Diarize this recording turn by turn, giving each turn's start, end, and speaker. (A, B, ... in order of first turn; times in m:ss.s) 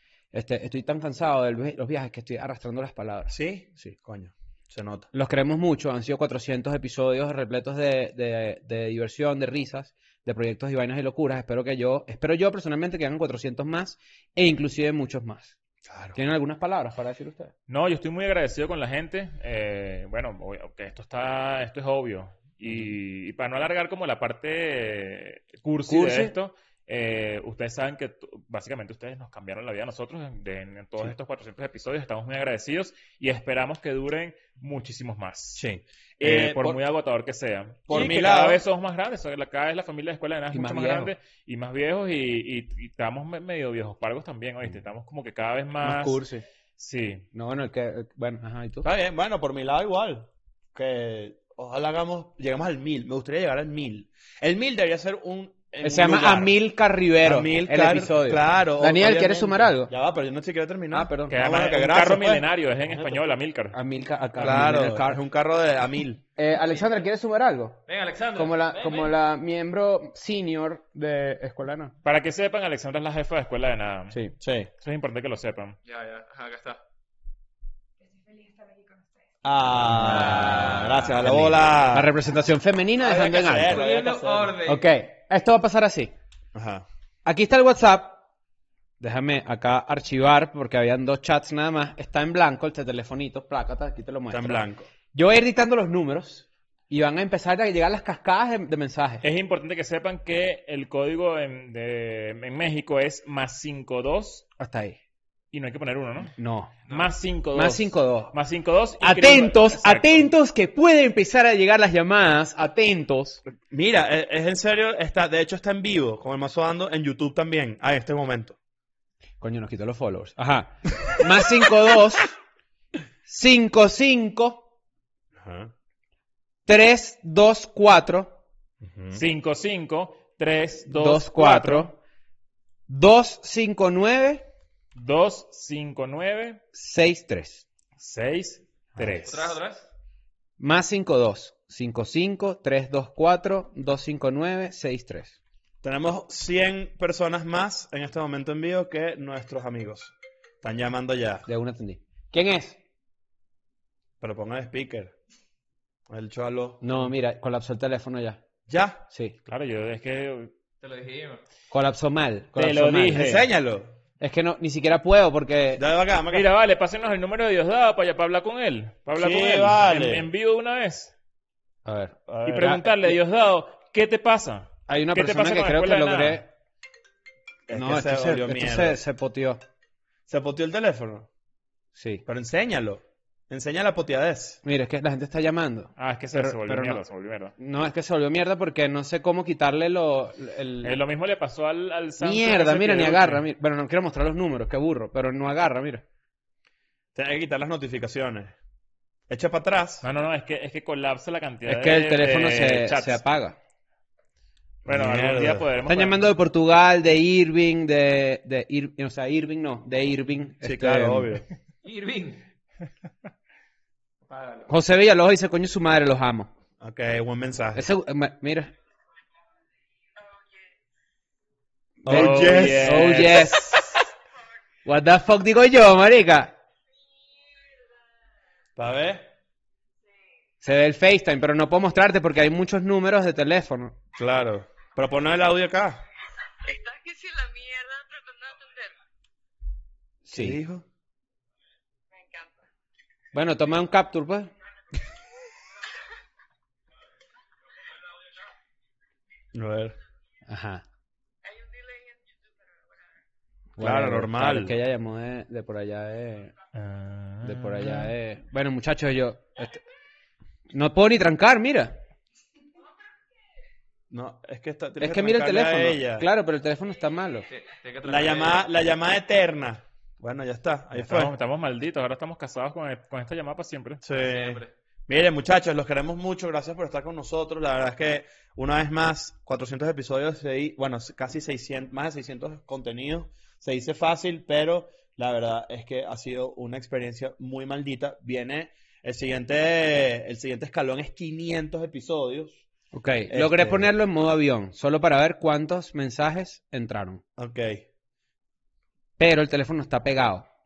0:00.3-0:03.9 A
0:03.3-0:05.1 B
0:05.1-0:15.5 A
0:15.8-0:16.2 B
0:16.1-0:17.5 A
0:17.7-0:35.6 C
0:25.9-0:26.3 A
0:35.6-0:36.8 B
0:36.2-0:46.2 C
0:37.9-0:38.6 B
0:40.5-0:41.1 A
0:45.8-0:46.4 A
0:46.8-0:47.2 C
0:47.3-0:48.9 A
0:48.8-0:56.6 B
0:55.8-0:59.9 A
0:57.2-1:03.2 B
1:00.9-1:01.3 A
1:01.3-1:03.8 C
1:03.7-1:05.2 A
1:04.4-1:06.2 B
1:06.4-1:07.8 A
1:06.5-1:07.0 D
1:07.9-1:09.1 D
1:08.3-1:11.9 A
1:12.0-1:14.2 C
1:14.4-1:14.7 B
1:14.8-1:15.8 C
1:15.8-1:16.8 D
1:19.4-1:22.1 B
1:19.9-1:23.8 A
1:20.1-1:21.3 D
1:23.0-1:24.6 B
1:23.5-1:24.9 D
1:24.6-1:26.1 A
1:26.5-1:26.8 B
1:27.2-1:28.2 A
1:29.0-1:39.2 A
1:34.3-1:34.9 B
1:39.2-1:44.4 C
1:44.6-1:45.0 A
1:45.5-1:46.3 C
1:46.4-1:46.7 A
1:46.9-1:47.1 D
1:46.9-1:50.3 C
1:47.5-1:48.3 A
1:49.0-1:53.4 A
1:53.5-1:58.6 B
1:59.4-2:02.3 A
2:03.2-2:04.7 A
2:05.3-2:05.7 B
2:06.7-2:08.4 A
2:08.8-2:09.2 B
2:09.1-2:11.9 C
2:10.9-2:12.0 A
2:12.9-2:14.4 A
2:14.9-2:16.6 C
2:16.7-2:17.6 A
2:18.0-2:19.6 C
2:19.2-2:19.9 D
2:20.6-2:25.4 A
2:25.8-2:31.5 B
2:31.5-2:32.8 A
2:34.2-2:35.1 B
2:36.1-2:37.1 B
2:36.8-2:38.4 A
2:38.7-2:39.0 B
2:39.5-2:40.5 C
2:40.8-2:41.4 D
2:41.7-2:43.4 A
2:42.5-2:43.4 C
2:43.1-2:43.9 B
2:44.2-2:45.8 A
2:45.8-2:46.5 B
2:46.3-2:51.1 C
2:49.2-2:50.3 B
2:51.8-2:52.2 A
2:52.3-2:53.1 B
2:52.4-2:56.4 C
2:54.9-2:56.5 A
2:57.7-2:59.0 B
2:57.7-2:59.6 A
3:00.3-3:01.3 B
3:01.9-3:02.2 A
3:02.2-3:04.6 B
3:04.6-3:07.0 A
3:06.0-3:07.5 C
3:07.6-3:11.0 A
3:10.8-3:13.4 C
3:12.2-3:16.0 A
3:17.1-3:18.5 B
3:19.3-3:20.0 B
3:20.0-3:23.2 C
3:21.6-3:23.6 A
3:24.8-3:26.3 C
3:24.9-3:25.6 B
3:25.9-3:31.3 A
3:30.6-3:31.4 B
3:31.8-3:32.5 D
3:34.2-3:34.7 D
3:34.7-3:36.5 A
3:36.8-3:37.9 B
3:37.7-3:38.7 A
3:42.0-3:43.1 B
3:42.0-3:43.9 A
3:42.1-3:43.9 C
3:44.8-3:46.5 A
3:48.8-3:49.3 B
3:50.6-3:53.9 A
3:54.1-3:56.0 B
3:56.8-3:58.7 E
4:00.2-4:00.6 A
4:00.3-4:00.8 B
4:03.3-4:04.5 A
4:09.5-4:10.0 B
4:10.5-4:10.8 A
4:11.5-4:12.1 E
4:13.8-4:16.5 A
4:13.8-4:14.8 B
4:16.7-4:18.1 C
4:17.4-4:19.8 A
4:20.7-4:22.0 A
4:24.1-4:26.3 B
4:25.0-4:27.4 A
4:27.5-4:28.7 D
4:28.0-4:31.3 B
4:31.0-4:34.0 C
4:34.0-4:52.6 B
4:34.1-4:34.7 D
4:52.9-4:57.2 A
4:53.3-4:53.9 B
4:57.4-4:57.8 B
4:59.2-5:00.4 A